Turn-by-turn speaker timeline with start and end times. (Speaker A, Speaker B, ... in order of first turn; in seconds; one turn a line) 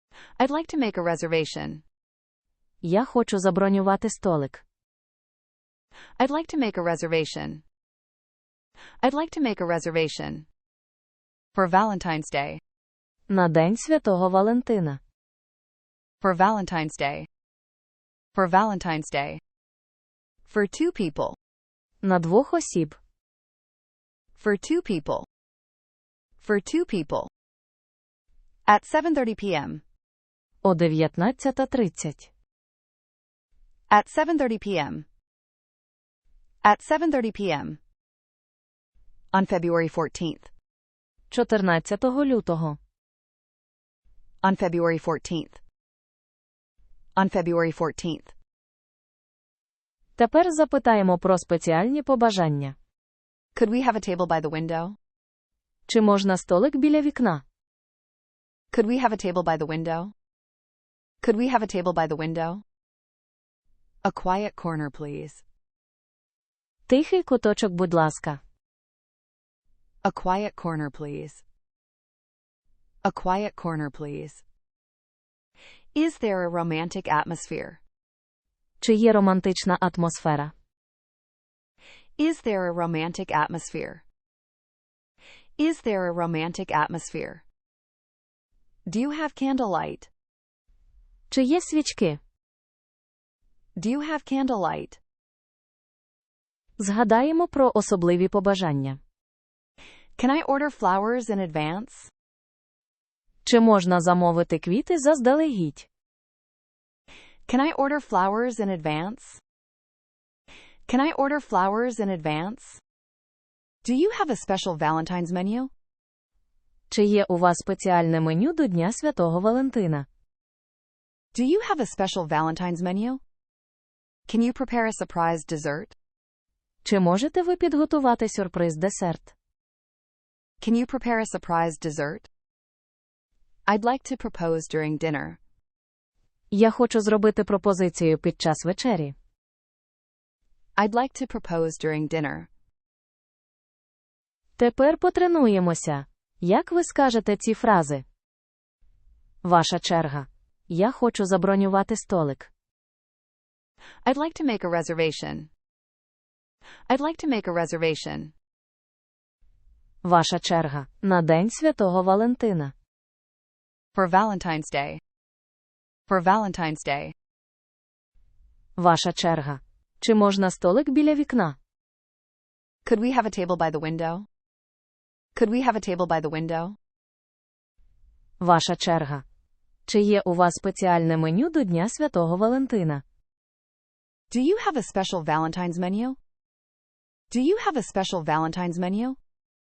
Speaker A: 0.4-1.8
Speaker B: 2.8-4.6
Speaker A: 6.2-7.6
Speaker A: 9.0-10.5
Speaker A: 11.6-12.6
Speaker B: 13.3-15.0
Speaker A: 16.2-17.3
Speaker A: 18.4-19.4
Speaker A: 20.5-21.4
Speaker B: 22.0-23.0
Speaker A: 24.4-25.3
Speaker A: 26.4-27.3
Speaker A: 28.7-29.8
Speaker B: 30.6-32.3
Speaker A: 33.9-35.1
Speaker A: 36.6-37.8
Speaker A: 39.3-40.5
Speaker B: 41.3-42.8
Speaker A: 44.4-45.6
Speaker A: 47.2-48.3
Speaker B: 50.2-52.8
Speaker A: 53.6-55.0
Speaker B: 55.9-57.4
Speaker A: 58.7-60.1
Speaker A: 61.2-62.6
Speaker A: 64.0-65.4
Speaker B: 66.9-68.4
Speaker A: 70.0-71.4
Speaker A: 73.0-74.4
Speaker A: 76.0-77.8
Speaker B: 78.8-80.5
Speaker A: 82.2-84.0
Speaker A: 85.6-87.4
Speaker A: 88.9-90.1
Speaker B: 91.3-92.2
Speaker A: 93.8-95.0
Speaker B: 96.8-99.0
Speaker A: 100.2-102.1
Speaker B: 103.5-105.9
Speaker A: 107.5-109.4
Speaker A: 110.9-112.8
Speaker A: 113.8-115.7
Speaker B: 116.9-120.1
Speaker A: 121.3-123.2
Speaker A: 124.3-126.0
Speaker B: 126.8-129.3
Speaker A: 130.6-132.3
Speaker A: 133.7-135.4
Speaker B: 136.5-139.2
Speaker A: 140.8-142.5
Speaker B: 144.6-148.0
Speaker B: 149.4-152.5
Speaker A: 154.0-155.5
Speaker A: 156.9-158.3
Speaker B: 160.0-162.7
Speaker A: 163.9-165.0
Speaker A: 166.1-167.1
Speaker B: 168.8-171.6
Speaker A: 172.8-174.3
Speaker A: 175.3-176.8
Speaker B: 178.4-179.2
Speaker B: 179.9-183.0
Speaker A: 184.3-186.2
Speaker A: 187.3-189.2